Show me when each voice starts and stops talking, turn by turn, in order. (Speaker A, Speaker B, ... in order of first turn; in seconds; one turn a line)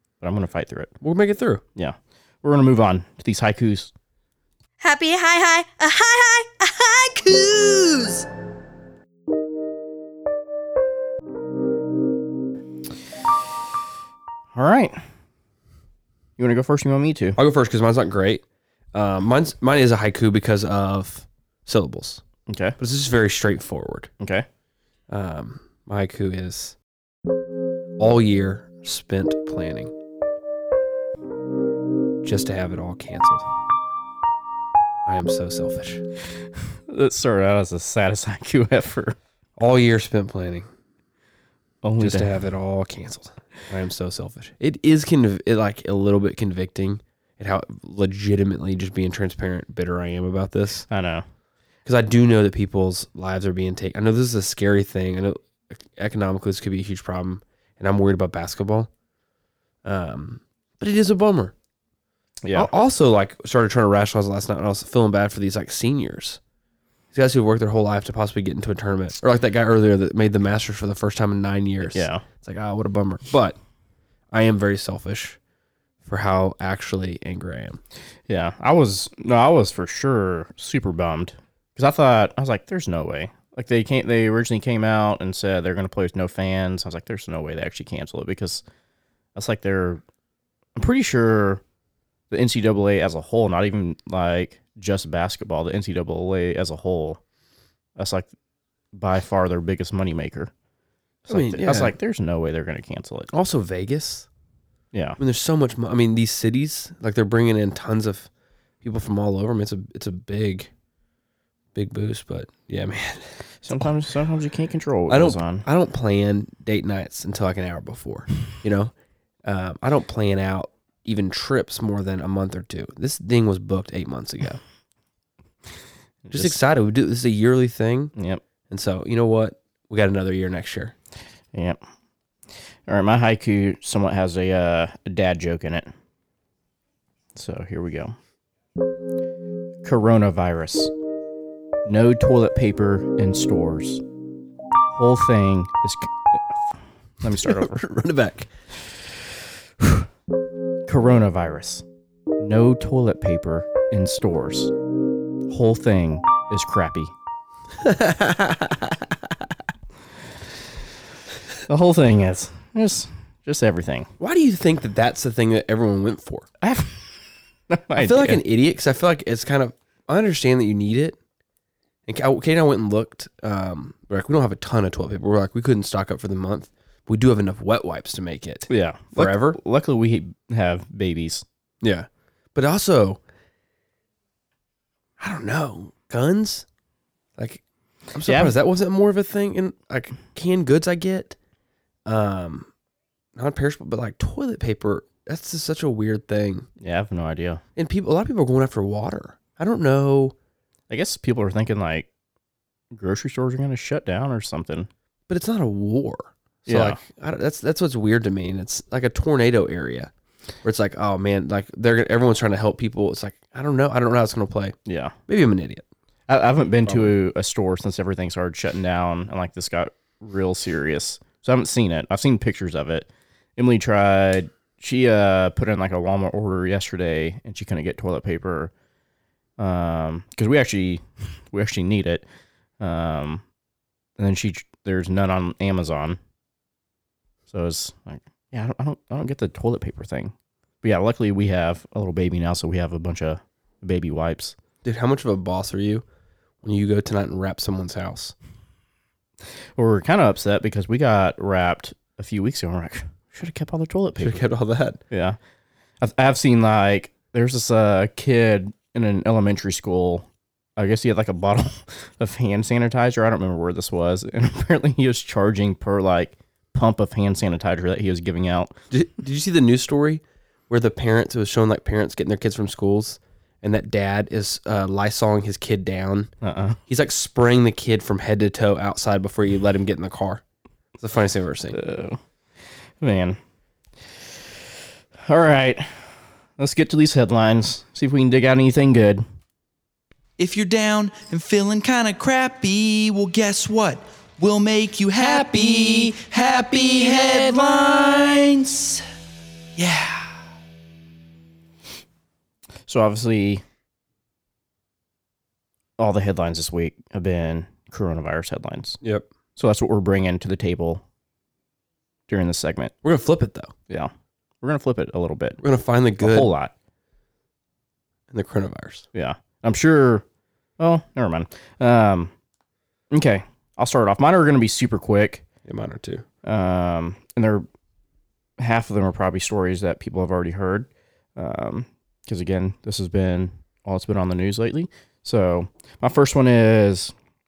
Speaker A: 0.2-0.9
Speaker B: 1.0-1.6
Speaker A: 1.8-3.9
Speaker C: 4.8-8.2
Speaker A: 14.5-15.0
Speaker A: 16.4-17.4
Speaker B: 17.4-22.2
Speaker A: 22.5-22.8
Speaker B: 22.8-24.1
Speaker A: 24.2-24.5
Speaker B: 25.1-26.8
Speaker B: 28.0-29.9
Speaker B: 32.2-33.5
Speaker B: 35.1-36.0
Speaker A: 36.9-39.2
Speaker B: 39.6-40.7
Speaker A: 41.8-42.4
Speaker B: 42.0-50.9
Speaker A: 50.9-51.2
Speaker B: 51.9-58.9
Speaker B: 59.9-61.5
Speaker A: 62.4-62.7
Speaker B: 62.5-66.4
Speaker B: 67.1-73.6
Speaker A: 71.8-72.2
Speaker B: 74.3-75.4
Speaker B: 76.0-77.8
Speaker A: 78.3-88.6
Speaker A: 89.3-90.0
Speaker A: 90.8-91.6
Speaker A: 92.3-97.2
Speaker A: 98.0-98.3
Speaker A: 98.9-100.5
Speaker A: 101.2-103.3
Speaker B: 101.3-102.0
Speaker B: 103.3-104.3
Speaker A: 104.9-105.2
Speaker B: 105.2-108.3
Speaker B: 108.8-110.7
Speaker B: 111.8-113.3
Speaker A: 113.6-115.6
Speaker B: 115.1-118.9
Speaker B: 119.5-124.6
Speaker A: 126.2-126.6
Speaker B: 126.3-128.1
Speaker A: 128.2-128.4
Speaker B: 128.7-130.9
Speaker A: 131.5-131.8
Speaker A: 132.9-135.9
Speaker A: 137.3-138.2
Speaker A: 139.8-140.9
Speaker A: 141.9-144.0
Speaker A: 144.9-147.8
Speaker B: 147.2-148.5
Speaker A: 149.8-150.1
Speaker A: 150.9-151.8
Speaker A: 152.4-154.7
Speaker A: 155.5-157.1
Speaker B: 157.8-159.0
Speaker A: 161.7-164.1
Speaker B: 164.2-166.5
Speaker A: 166.6-167.2
Speaker A: 167.7-168.4
Speaker B: 168.0-171.2
Speaker B: 172.1-179.6
Speaker A: 178.7-181.4
Speaker B: 181.8-183.2
Speaker B: 185.2-186.7
Speaker B: 187.4-187.6
Speaker B: 188.1-191.4
Speaker A: 188.2-188.6
Speaker B: 192.1-192.7
Speaker B: 193.4-196.7
Speaker A: 196.8-197.6
Speaker B: 197.8-200.3
Speaker A: 200.9-202.1
Speaker A: 202.9-204.9
Speaker B: 205.3-210.1
Speaker A: 206.7-207.0
Speaker B: 210.6-214.8
Speaker A: 214.9-215.1
Speaker B: 215.3-215.8
Speaker A: 216.3-228.7
Speaker B: 216.9-217.1
Speaker A: 229.6-232.2
Speaker A: 232.8-233.4
Speaker A: 234.2-236.2
Speaker A: 237.5-244.6
Speaker B: 244.8-246.0
Speaker B: 246.6-248.3
Speaker A: 249.8-254.4
Speaker B: 254.2-255.0
Speaker A: 255.1-255.4
Speaker A: 256.0-268.8
Speaker B: 268.9-276.3
Speaker A: 276.4-276.8
Speaker B: 276.9-280.4
Speaker B: 281.0-281.8
Speaker A: 281.7-282.2
Speaker A: 283.0-283.4
Speaker A: 285.2-289.2
Speaker D: 290.4-299.0
Speaker D: 299.8-300.4
Speaker A: 302.9-303.6
Speaker A: 306.0-309.0
Speaker B: 309.0-309.3
Speaker A: 309.6-311.0
Speaker A: 312.3-312.9
Speaker B: 313.0-313.7
Speaker A: 314.6-315.6
Speaker B: 315.6-316.5
Speaker A: 316.2-316.7
Speaker B: 318.3-319.1
Speaker A: 319.1-320.2
Speaker A: 320.8-322.3
Speaker A: 323.1-325.4
Speaker B: 325.6-326.2
Speaker A: 326.4-327.6
Speaker A: 328.6-337.1